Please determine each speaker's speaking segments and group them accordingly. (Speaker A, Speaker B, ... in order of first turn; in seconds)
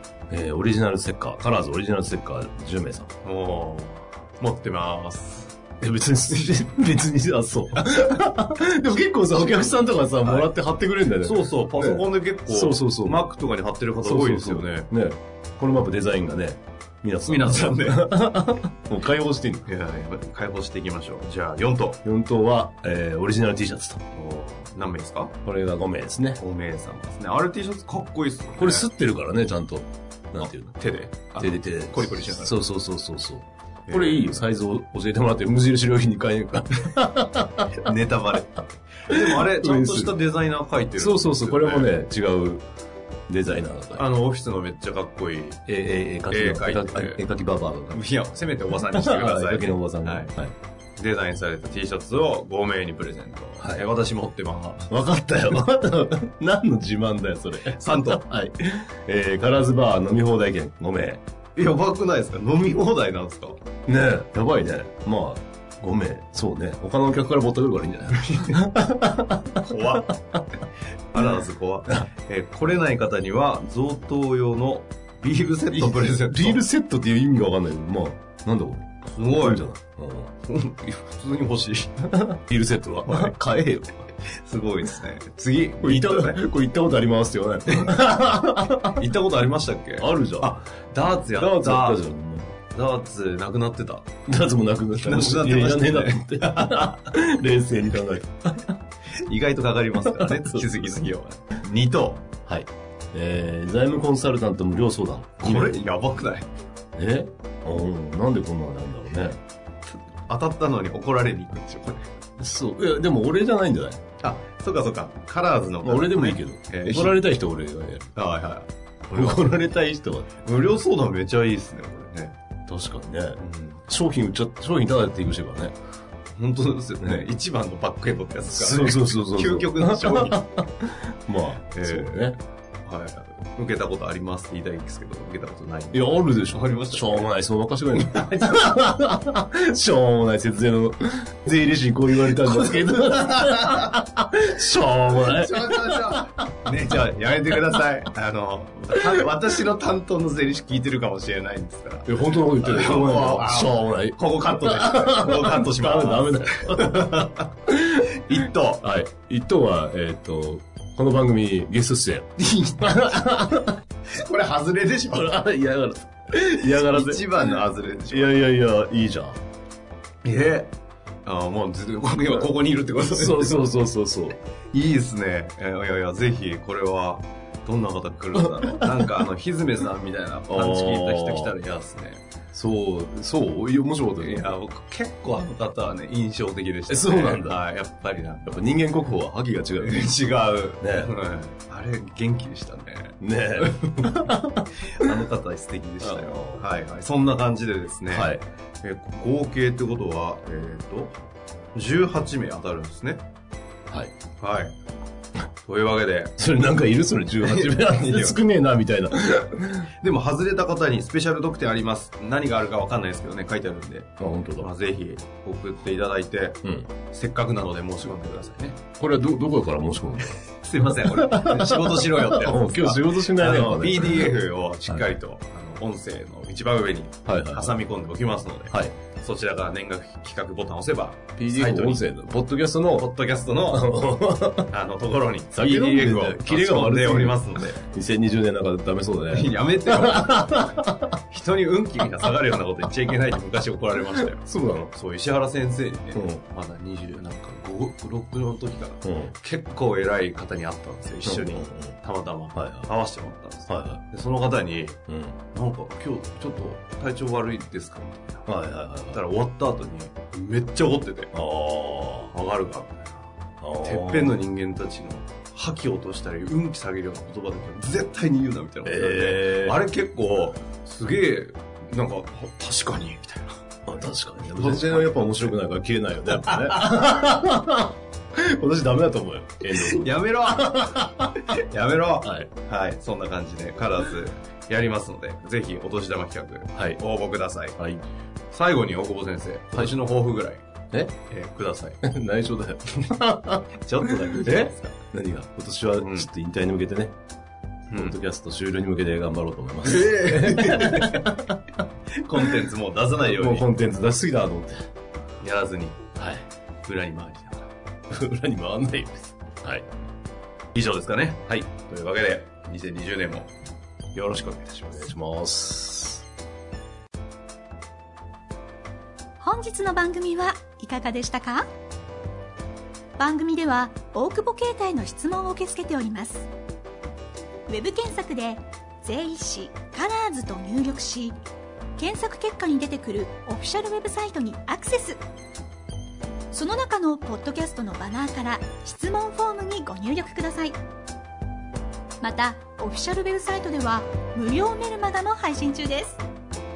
Speaker A: 0.3-3.1, 5.8-13.3, 14.0-19.7, 22.0-24.0, 25.4-26.4, 28.6-30.8, 31.4-37.9, 39.1-40.1, 41.0-42.6, 43.3-44.0, 45.7-48.0, 48.7-50.5, 53.6-53.9, 54.9-61.2, 63.9-70.1, 75.7-80.3, 82.1-84.0, 85.8-89.1, 90.0-90.6, 91.3-92.5, 94.3-98.8, 100.0-100.9, 102.5-105.8, 107.0-109.4, 112.4-114.0, 115.8-118.1, 119.1-120.3, 122.7-125.7, 127.0-127.3, 128.5-132.4, 135.9-146.8, 148.9-149.2, 152.1-158.1, 158.8-162.3, 162.8-163.8, 165.1-169.4, 173.1-174.4, 178.3-179.1, 180.5-181.5, 182.5-184.5, 186.9-187.6, 188.5-190.1, 190.8-191.1, 193.2-195.2, 196.0-196.7, 198.1-198.4, 206.4-209.9, 214.2-214.7, 216.6-216.9, 219.0-225.1, 227.3-227.8, 228.7-228.9, 231.4-234.8, 235.5-241.2, 244.1-244.9, 246.1-246.4, 249.0-249.3, 251.2-252.0, 252.6-252.9, 253.7-254.0, 255.1-255.4, 258.5-259.2, 261.3-262.3, 263.6-264.4, 268.9-269.8, 273.9-281.5, 282.2-282.5, 292.0-297.1, 297.9-301.6, 303.2-304.8, 306.2-306.4, 308.1-309.9, 314.9-316.2
Speaker B: 3.2-5.6, 9.4-10.5, 11.2-14.9, 17.3-18.1, 19.7-22.0, 24.1-25.4, 26.4-28.9, 30.4-32.6, 33.9-34.5, 37.8-41.9, 44.0-45.6, 46.3-47.2, 47.9-50.3, 51.0-54.9, 57.7-58.2, 61.6-63.6, 68.2-68.7, 69.6-70.2, 71.1-76.6, 79.1-79.7, 80.5-82.1, 83.1-83.4, 84.2-86.4, 87.7-88.0, 88.8-92.0, 92.7-94.1, 95.0-97.0, 99.2-102.3, 105.4-106.5, 109.9-112.1, 114.2-117.2, 118.2-119.6, 120.5-122.4, 123.4-123.8, 126.4-130.4, 131.7-132.3, 132.8-137.3, 137.9-138.7, 142.3-144.0, 145.1-158.8, 162.4-163.2, 164.1-165.3, 166.6-168.4, 170.2-170.7, 171.2-173.6, 174.7-182.2, 184.2-188.7, 189.8-194.3, 194.8-201.2, 201.8-203.2, 204.4-204.8, 205.6-206.3, 207.4-208.4, 210.0-218.8, 220.6-232.1, 232.9-233.9, 234.7-237.8, 239.3-240.7, 241.3-255.0, 255.5-258.5, 259.1-261.3, 262.3-263.3, 263.8-273.5, 274.5-275.5, 276.3-277.1, 279.7-287.8, 288.5-290.6, 291.3-292.0, 293.8-294.9, 296.0-296.3, 299.8-301.3, 302.2-303.7, 305.4-306.0, 306.9-307.7, 310.8-313.5, 314.1-315.0
Speaker C: 319.4-321.7, 323.2-326.5, 327.7-331.4, 332.0-335.2, 336.5-340.8, 342.2-346.2